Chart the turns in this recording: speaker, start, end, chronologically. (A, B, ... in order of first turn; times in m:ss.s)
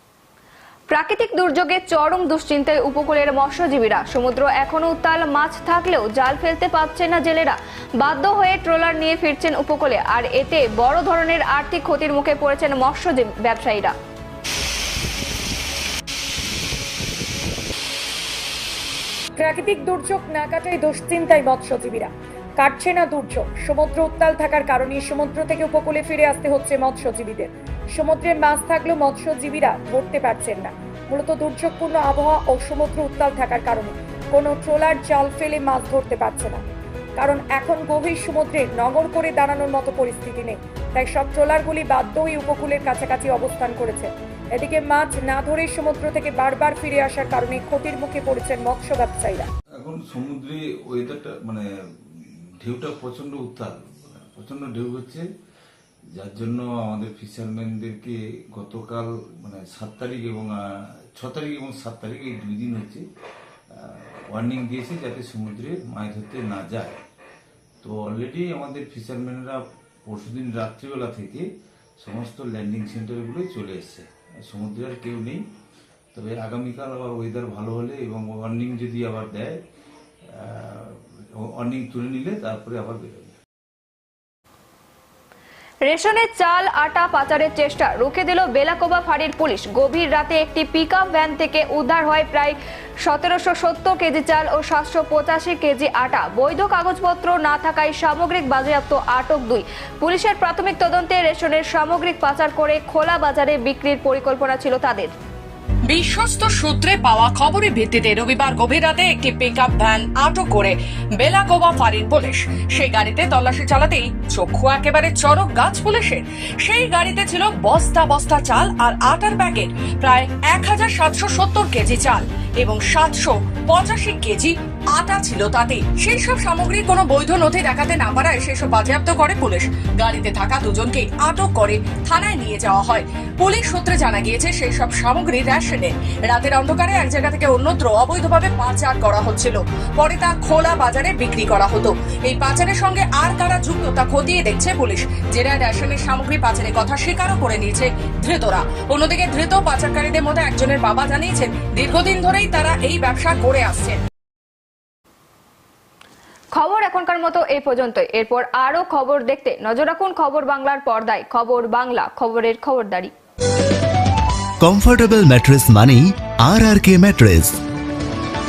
0:00.9-0:13.9 A
0:19.4-0:49.5 B
0:49.8-0:55.3 C
0:56.1-1:00.6 C
1:01.2-1:03.0 C
1:03.7-1:07.0 C
1:07.8-1:11.5 C
1:12.0-1:15.4 C
1:16.1-1:19.6 C
1:20.4-1:21.0 C
1:21.6-1:23.3 C
1:25.8-1:45.1 A
1:45.9-2:34.0 D
2:36.5-2:43.1 A
2:44.6-2:47.6 E